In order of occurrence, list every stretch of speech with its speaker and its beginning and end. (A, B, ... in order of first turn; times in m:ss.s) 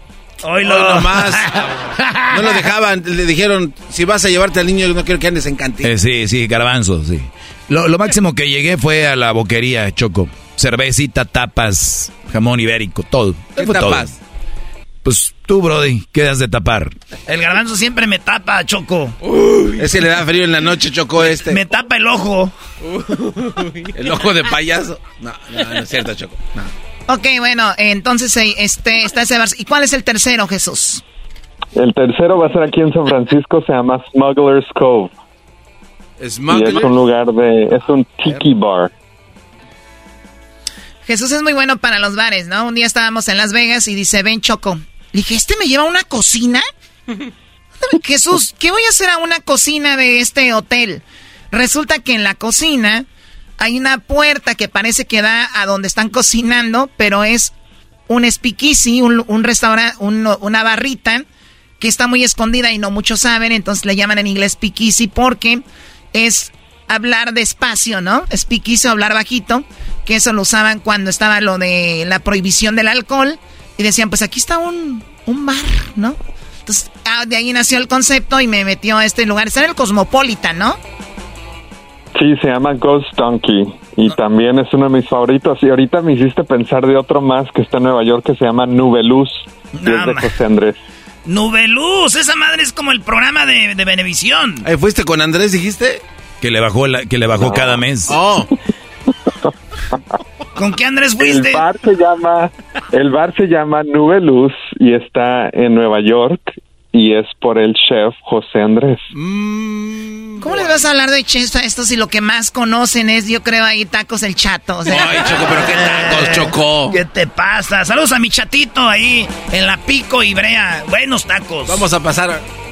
0:00.4-0:02.6 A
0:00.6-0:01.6 B
0:02.3-0:05.9 B
0:05.8-0:14.1 C
0:13.6-0:14.1 B
0:15.0-0:17.0 C
0:17.3-0:19.2 A
0:19.8-0:21.6 B
0:21.2-0:22.5 A
0:23.9-0:26.7 B
0:27.1-0:31.0 D
0:31.8-0:35.1 E
0:36.2-0:36.9 B
0:36.5-0:38.9 E
0:41.0-0:46.6 D
0:47.8-0:53.0 D
0:53.6-0:57.5 D
0:58.1-1:01.2 D
1:01.8-1:05.6 D
1:06.1-1:20.8 D
1:22.1-1:30.8 E
1:29.8-1:30.3 A
1:31.2-1:34.6 A
1:34.6-1:36.0 B
1:36.4-1:38.1 C
1:38.1-1:38.5 B
1:40.6-1:41.6 A
1:41.2-1:49.0 E
1:49.1-1:50.8 B
1:50.4-1:55.1 D
1:54.8-1:57.0 B
1:55.8-2:01.8 A
2:01.7-2:02.4 B